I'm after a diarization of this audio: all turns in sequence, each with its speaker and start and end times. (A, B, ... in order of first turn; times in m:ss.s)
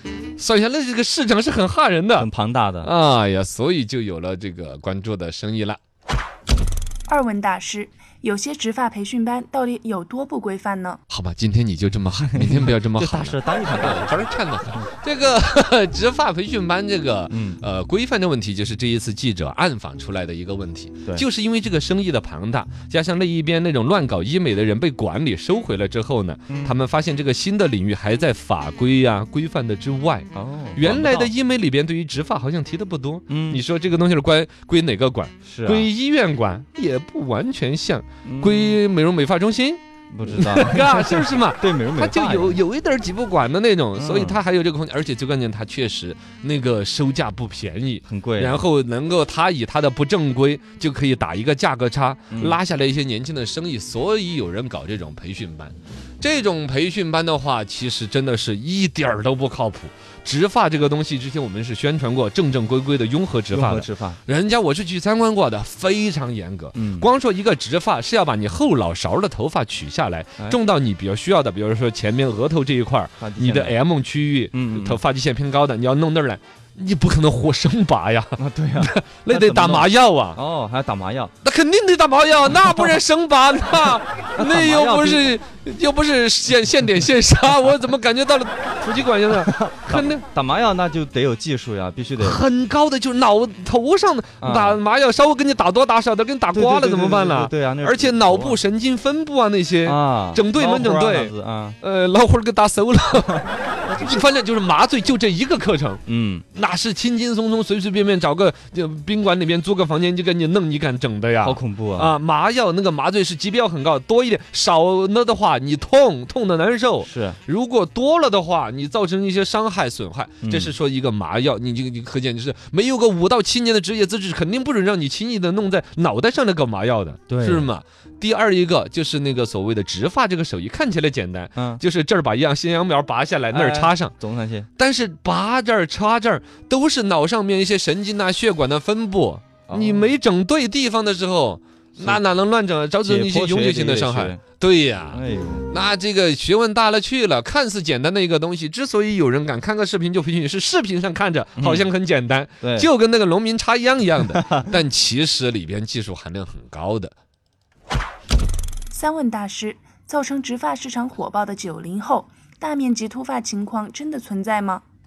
0:00.4-0:02.3 A
0:02.2-0:02.9 B
0:02.8-0:05.8 A
0:07.1-0:11.0 C
0:11.1-1:20.4 A
0:12.3-0:14.3 B
0:17.3-0:17.6 B
0:26.5-0:26.8 B
0:30.3-0:31.3 B
0:33.3-0:33.6 B
0:35.5-0:35.9 B
0:38.2-0:38.8 B
0:40.1-0:42.6 B
0:44.0-0:44.4 B
0:48.1-0:48.6 B
0:52.3-0:52.6 B
1:03.5-1:04.2 B
1:06.8-1:07.1 B
1:13.2-1:13.8 B
1:14.5-1:15.0 B
1:18.4-1:21.3 B
1:21.4-1:30.2 A
1:24.4-1:25.3 B
1:29.5-1:32.4 B
1:32.2-2:14.1 A
1:34.4-1:34.8 B
1:36.5-1:38.6 B
1:39.8-1:41.8 B
1:43.2-1:44.3 B
1:46.1-1:46.4 B
1:51.4-1:52.2 B
1:57.0-1:57.4 B
2:00.4-2:00.8 B
2:07.3-2:07.7 B
2:11.6-2:11.8 B
2:13.5-2:14.7 B
2:14.8-2:37.1 A
2:19.7-2:20.2 B
2:22.0-2:22.2 B
2:23.0-2:24.4 B
2:25.1-2:25.7 B
2:31.6-2:31.9 B
2:32.6-2:32.9 B
2:34.3-2:34.7 B
2:38.9-2:44.8 C